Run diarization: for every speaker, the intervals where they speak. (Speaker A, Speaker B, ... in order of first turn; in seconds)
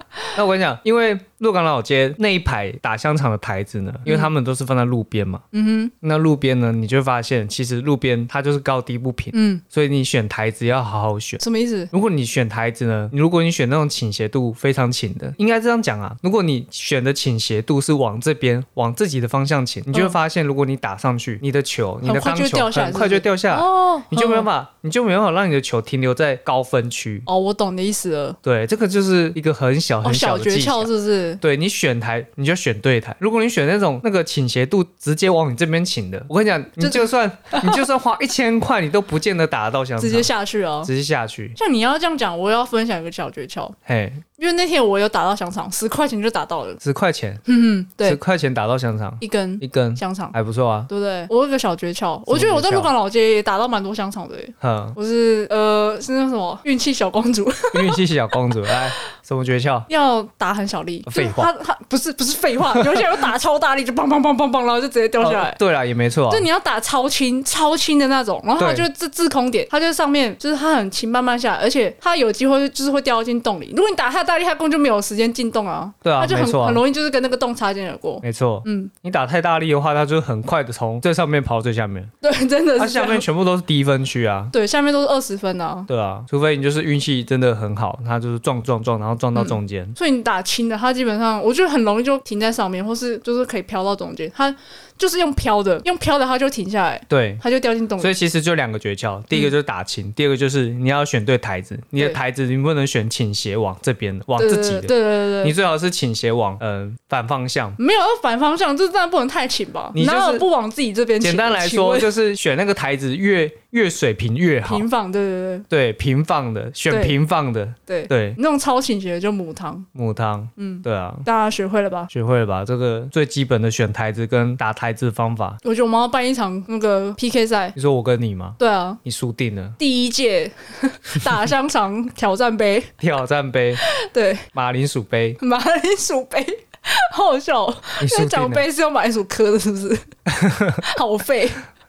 Speaker A: 0.3-5.4, 6.0-27.3, 28.4-30.9, 31.4-40.3, 40.8-41.6, 43.9-44.2, 46.8-47.4, 48.0-50.9, 52.3-52.9, 54.6-55.0, 57.7-59.9, 61.1-61.5, 65.2-66.5, 68.6-68.8, 76.0-76.8, 78.2-82.1, 82.8-84.5, 85.9-90.0, 97.1-97.4, 98.0-107.8, 109.9-110.5, 111.2-114.8, 115.7-118.4, 119.9-121.3, 122.1-125.6, 127.7-129.8, 133.0-133.8, 134.5-135.4, 138.0-138.6, 140.3-140.8
Speaker B: 5.5-5.9, 9.3-9.6, 11.4-11.9, 22.0-24.5, 27.3-28.4, 30.0-31.4, 36.8-37.8, 40.0-40.9, 41.6-43.7, 44.4-46.8, 47.5-48.2, 49.2-50.3, 50.9-58.0, 59.9-65.6, 66.3-78.9, 82.2-83.2, 84.5-85.9, 89.3-98.1, 104.4-105.5, 107.8-112.1, 114.6-115.7, 116.9-117.2, 117.9-119.9, 120.6-122.1, 125.6-127.8, 128.6-129.0, 129.8-132.9, 133.8-134.4, 135.4-140.1, 140.8-141.6